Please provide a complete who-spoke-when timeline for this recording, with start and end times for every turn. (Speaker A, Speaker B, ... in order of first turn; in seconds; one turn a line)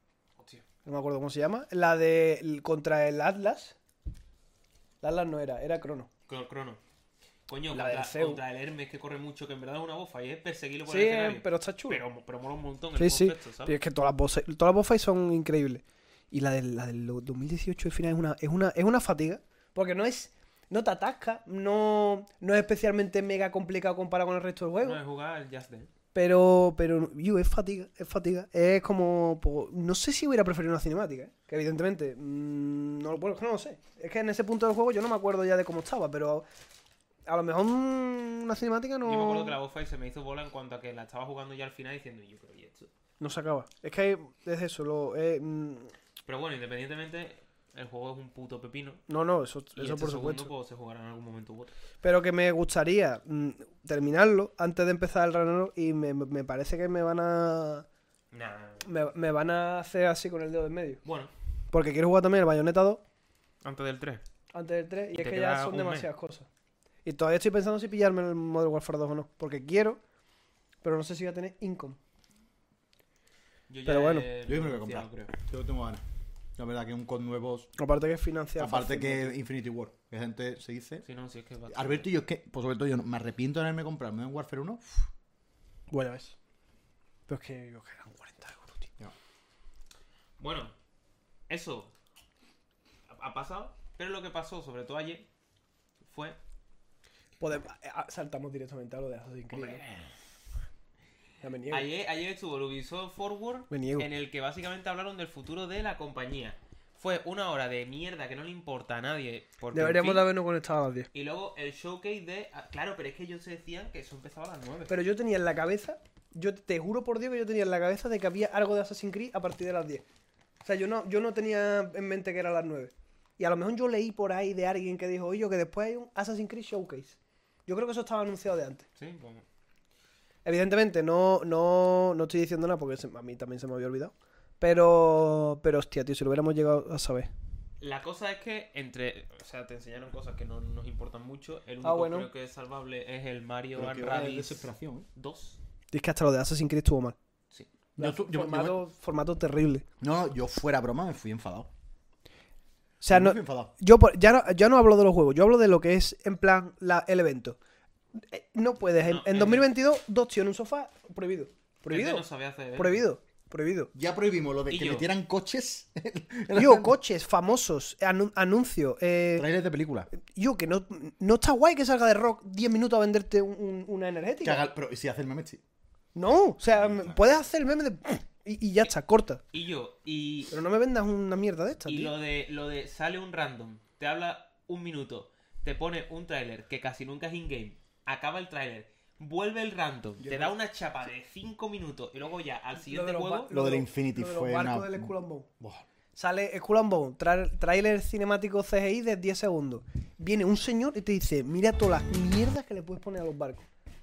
Speaker A: 0.4-0.6
Speaker B: 0.8-3.8
Speaker B: 5.0-6.1
Speaker A: 6.3-6.8
Speaker A: 7.5-13.8
Speaker B: 7.7-8.4
Speaker B: 10.9-12.0
Speaker B: 13.0-25.0
Speaker A: 24.8-25.9
Speaker B: 26.1-36.5
Speaker B: 37.3-39.6
Speaker A: 39.0-42.9
Speaker B: 43.2-45.9
Speaker A: 46.3-49.0
Speaker B: 49.1-50.5
Speaker A: 49.8-51.7
Speaker B: 52.0-57.9
Speaker A: 58.3-58.9
Speaker B: 58.8-61.0
Speaker A: 61.0-61.3
Speaker B: 61.7-63.0
Speaker A: 63.6-64.2
Speaker B: 64.5-66.5
Speaker A: 65.1-66.1
Speaker B: 67.0-70.0
Speaker B: 70.8-72.0
Speaker A: 73.7-75.3
Speaker B: 73.8-74.3
Speaker C: 74.5-76.0
Speaker C: 76.6-77.7
Speaker B: 77.8-79.4
Speaker C: 78.6-81.0
Speaker A: 81.0-82.1
Speaker C: 81.7-85.1
Speaker B: 85.9-86.4
Speaker B: 87.3-88.9
Speaker A: 90.4-90.7
Speaker A: 91.5-91.9
Speaker A: 93.1-95.3
Speaker A: 96.0-96.4
Speaker B: 97.4-99.8
Speaker A: 99.5-100.0
Speaker B: 101.4-101.9
Speaker A: 101.7-110.3
Speaker B: 103.7-104.1
Speaker B: 109.7-111.1
Speaker A: 111.1-114.9
Speaker B: 114.9-120.0
Speaker B: 120.6-128.9
Speaker A: 129.0-129.4
Speaker B: 130.4-137.3
Speaker A: 137.8-145.6
Speaker B: 141.8-142.3
Speaker C: 143.7-145.1
Speaker B: 145.9-147.2
Speaker C: 148.0-148.8
Speaker B: 148.0-149.8
Speaker C: 150.0-151.7
Speaker B: 153.0-157.6
Speaker C: 153.1-153.7
Speaker B: 158.3-162.2
Speaker A: 159.0-159.7
Speaker A: 161.9-163.1
Speaker B: 162.8-163.9
Speaker C: 163.9-166.9
Speaker A: 164.7-165.1
Speaker B: 166.5-169.5
Speaker C: 169.4-170.1
Speaker B: 170.2-174.6
Speaker C: 174.4-175.6
Speaker B: 176.1-179.4
Speaker C: 176.7-177.4
Speaker A: 179.5-180.5
Speaker B: 180.5-182.1
Speaker A: 181.9-193.5
Speaker B: 190.2-190.5
Speaker B: 192.8-195.5
Speaker C: 193.5-195.8
Speaker B: 196.1-203.7